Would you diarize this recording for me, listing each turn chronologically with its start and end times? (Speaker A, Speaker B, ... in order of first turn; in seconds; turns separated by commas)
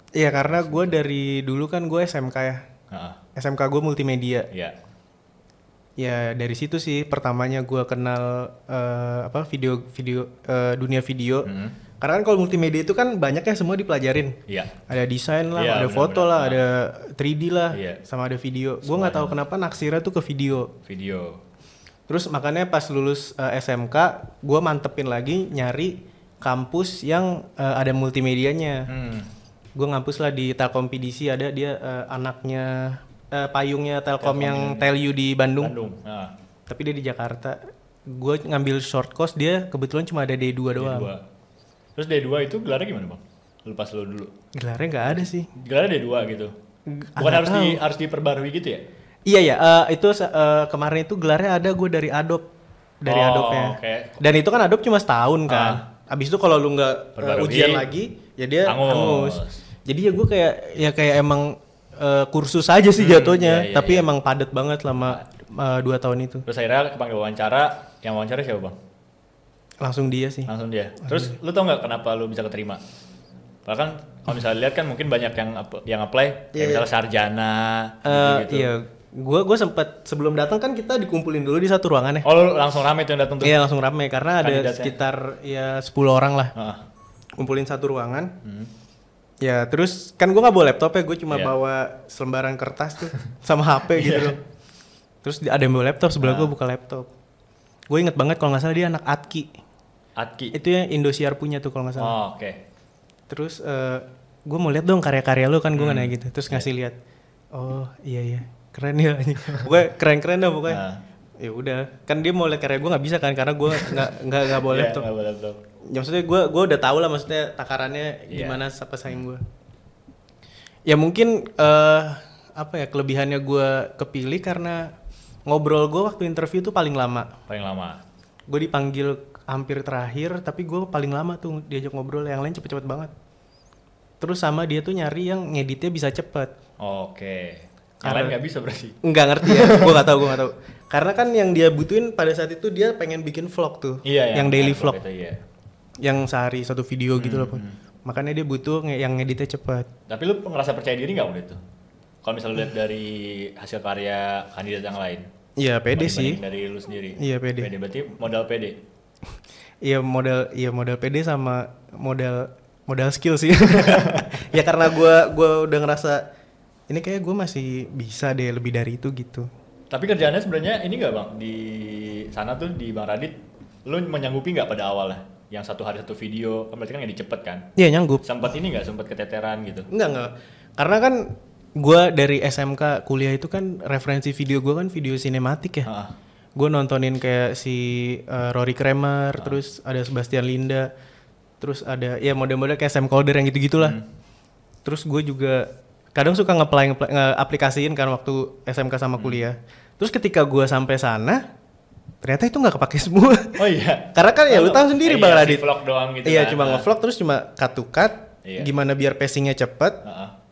Speaker A: 0.1-2.6, Speaker B: 0.4-1.0, Speaker B: 2.9-3.2, Speaker A: 3.4-4.5, Speaker A: 6.0-11.5, Speaker B: 11.4-11.8, Speaker A: 12.0-14.4, Speaker B: 14.5-14.8, Speaker A: 14.9-20.7, Speaker B: 15.6-16.6, Speaker B: 17.7-18.0, Speaker B: 18.8-19.4, Speaker B: 20.9-21.4, Speaker A: 22.1-28.9, Speaker B: 28.9-29.3, Speaker A: 29.8-35.7, Speaker B: 34.2-34.9, Speaker B: 35.6-36.3, Speaker A: 36.7-41.1, Speaker B: 40.7-41.2, Speaker B: 42.0-44.3, Speaker A: 44.5-45.5, Speaker B: 45.6-46.5, Speaker A: 46.9-47.8, Speaker B: 47.2-48.8, Speaker A: 49.3-52.5, Speaker A: 53.0-66.5, Speaker B: 53.1-54.2, Speaker B: 55.5-55.8, Speaker B: 57.2-57.9, Speaker B: 58.7-59.6, Speaker B: 63.0-64.1, Speaker B: 66.5-68.8, Speaker A: 69.8-70.5, Speaker B: 70.5-72.8, Speaker A: 71.0-71.3, Speaker B: 73.7-78.7, Speaker A: 76.5-76.9, Speaker A: 78.0-82.3, Speaker B: 82.2-83.6, Speaker A: 83.4-86.5, Speaker B: 84.4-85.0, Speaker B: 86.5-86.8, Speaker A: 87.4-88.3, Speaker B: 88.4-88.7, Speaker A: 89.4-94.4, Speaker B: 93.9-94.3, Speaker A: 95.2-97.1, Speaker B: 96.2-96.5, Speaker A: 97.9-99.5, Speaker B: 100.2-100.5, Speaker A: 100.5-102.2, Speaker B: 102.0-102.6, Speaker A: 103.3-107.0, Speaker B: 105.8-106.7, Speaker A: 107.5-110.8, Speaker B: 110.7-111.0, Speaker A: 111.4-115.1, Speaker B: 113.7-115.6, Speaker A: 115.9-119.4, Speaker B: 118.3-119.2, Speaker A: 120.9-124.9, Speaker A: 125.5-127.3, Speaker B: 127.5-128.0, Speaker A: 128.5-133.1, Speaker A: 134.2-136.5, Speaker B: 136.8-140.4, Speaker A: 138.0-138.4, Speaker A: 139.0-145.0, Speaker B: 144.1-145.4, Speaker A: 146.0-149.9, Speaker B: 147.2-147.8, Speaker B: 150.1-151.6, Speaker B: 152.2-155.2, Speaker A: 155.6-156.4, Speaker B: 155.9-158.8, Speaker A: 157.2-157.7, Speaker A: 159.8-166.3, Speaker B: 163.8-164.3, Speaker A: 166.9-169.5, Speaker B: 169.9-177.7, Speaker A: 177.8-178.3, Speaker B: 178.2-179.9, Speaker A: 179.9-185.9, Speaker B: 185.8-186.1, Speaker A: 186.6-190.9, Speaker A: 191.6-194.0, Speaker B: 193.8-194.0, Speaker A: 194.8-201.4, Speaker A: 202.2-203.6, Speaker B: 203.6-206.9, Speaker A: 204.1-205.7, Speaker A: 206.2-210.0, Speaker B: 208.4-208.7, Speaker B: 210.0-210.3